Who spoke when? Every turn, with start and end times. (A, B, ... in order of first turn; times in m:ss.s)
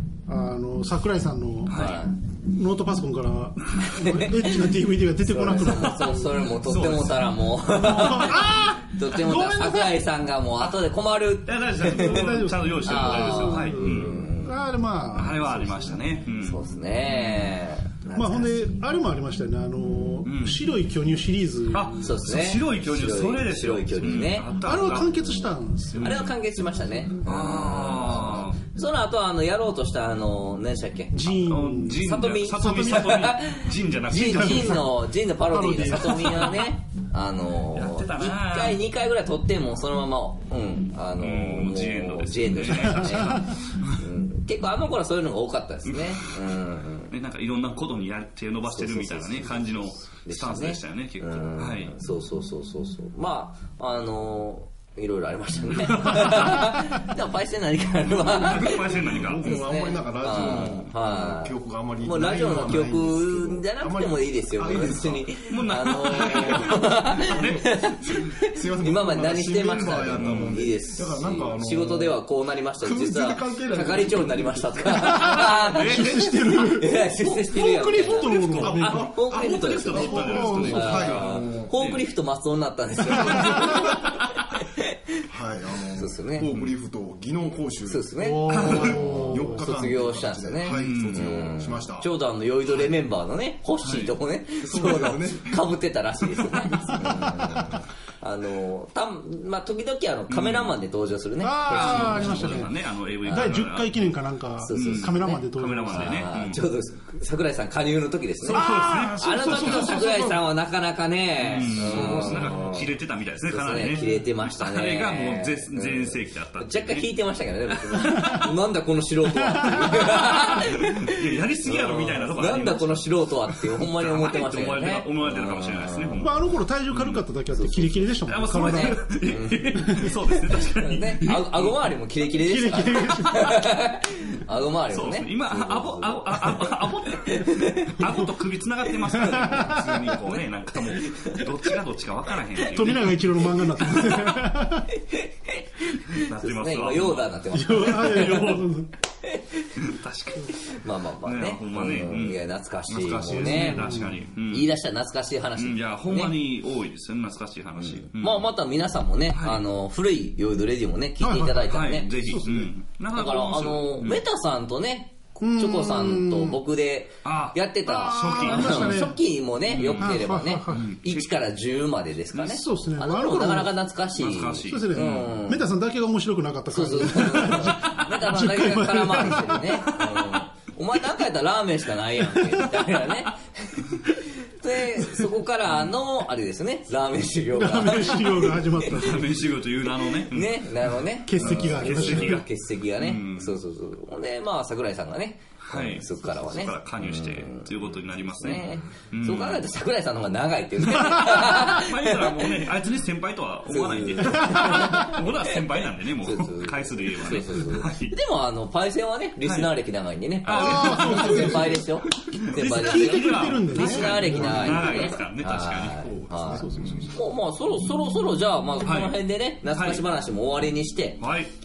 0:00.2-0:06.4 A
0:01.7-0:02.0 B
0:01.7-0:02.1 C
0:03.8-0:14.6 C
0:06.4-0:07.3 B
0:07.8-0:10.0 A
0:11.4-0:14.2 B
0:11.8-0:16.0 A
0:15.1-0:17.5 B
0:16.4-0:18.5 C
0:18.1-0:22.0 A
0:20.2-0:20.6 B
0:21.7-0:25.4 B
0:22.0-0:24.5 C
0:24.6-0:27.0 A
0:25.9-0:26.3 B
0:26.0-0:31.3 C
0:27.2-0:28.6 B
0:31.1-0:32.0 A
0:31.4-0:34.9 B
0:31.9-0:47.1 C
0:32.6-0:33.2 A
0:34.1-0:34.9 A
0:35.4-0:36.7 A
0:37.7-0:38.8 B
0:41.2-0:44.0 B
0:42.9-0:43.4 A
0:45.9-0:46.2 B
0:47.1-0:51.9 B
0:48.7-1:25.0 C
0:55.8-0:56.8 B
0:58.0-0:59.6 B
0:58.9-1:05.3 D
1:05.5-1:07.7 B
1:06.1-1:12.2 D
1:09.7-1:10.6 B
1:12.8-1:14.9 D
1:15.0-1:19.1 A
1:15.2-1:16.4 B
1:17.9-1:22.0 B
1:18.6-1:21.8 D
1:20.1-1:21.1 A
1:23.2-1:23.6 A
1:25.3-1:32.1 D
1:26.0-1:26.5 C
1:27.9-1:42.7 C
1:28.2-1:29.7 A
1:28.5-1:29.0 B
1:30.6-1:31.3 B
1:33.8-1:34.1 B
1:34.6-1:37.8 D
1:40.3-1:40.7 B
1:41.4-1:46.3 A
1:41.7-1:44.1 B
1:43.3-1:43.5 C
1:44.6-1:52.9 C
1:44.7-1:46.6 B
1:48.4-1:50.3 B
1:48.5-1:50.4 A
1:51.4-1:57.0 B
1:52.0-1:52.7 A
1:53.5-2:06.2 C
1:58.0-1:58.5 A
1:59.3-2:00.2 A
1:59.9-2:03.1 B
2:03.6-2:07.2 B
2:06.2-2:09.0 A
2:07.5-2:18.0 C
2:08.2-2:11.8 B
2:09.8-2:10.1 A
2:12.3-2:13.8 A
2:14.9-2:23.4 B
2:19.2-2:20.1 A
2:19.2-2:20.4 C
2:20.9-2:21.7 C
2:22.7-2:24.9 A
2:23.8-2:24.4 C
2:24.9-2:28.6 C
2:26.1-2:28.7 B
2:27.5-2:28.9 A
2:29.2-2:29.7 C
2:29.8-2:30.5 B
2:30.6-2:34.0 C
2:31.2-2:34.7 B
2:33.3-2:34.2 A
2:34.5-2:36.4 C
2:35.6-2:38.5 B
2:38.0-2:42.1 C
2:39.3-2:39.6 B
2:41.2-2:41.7 A
2:41.6-2:44.2 B
2:42.2-2:42.7 A
2:43.1-2:55.7 C
2:45.4-2:46.6 A
2:47.2-2:49.1 B
2:47.8-2:49.2 A
2:49.7-2:51.4 B
2:49.9-2:50.9 A
2:52.5-2:53.8 A
2:54.2-2:55.3 B
2:54.6-3:00.0 A
2:56.7-3:08.9 C
3:00.0-3:00.3 B
3:07.5-3:09.5 A
3:08.9-3:13.6 B
3:10.2-3:17.7 C
3:11.2-3:12.4 A
3:15.6-3:19.6 B
3:18.3-3:22.5 C
3:20.8-3:28.2 B
3:23.7-3:41.2 C
3:24.5-3:25.0 A
3:29.4-3:29.7 B
3:30.4-3:36.1 B
3:30.5-3:31.8 A
3:32.5-3:35.1 A
3:35.9-3:37.2 D
3:36.6-3:37.0 A
3:38.8-3:40.0 B
3:41.2-3:41.5 B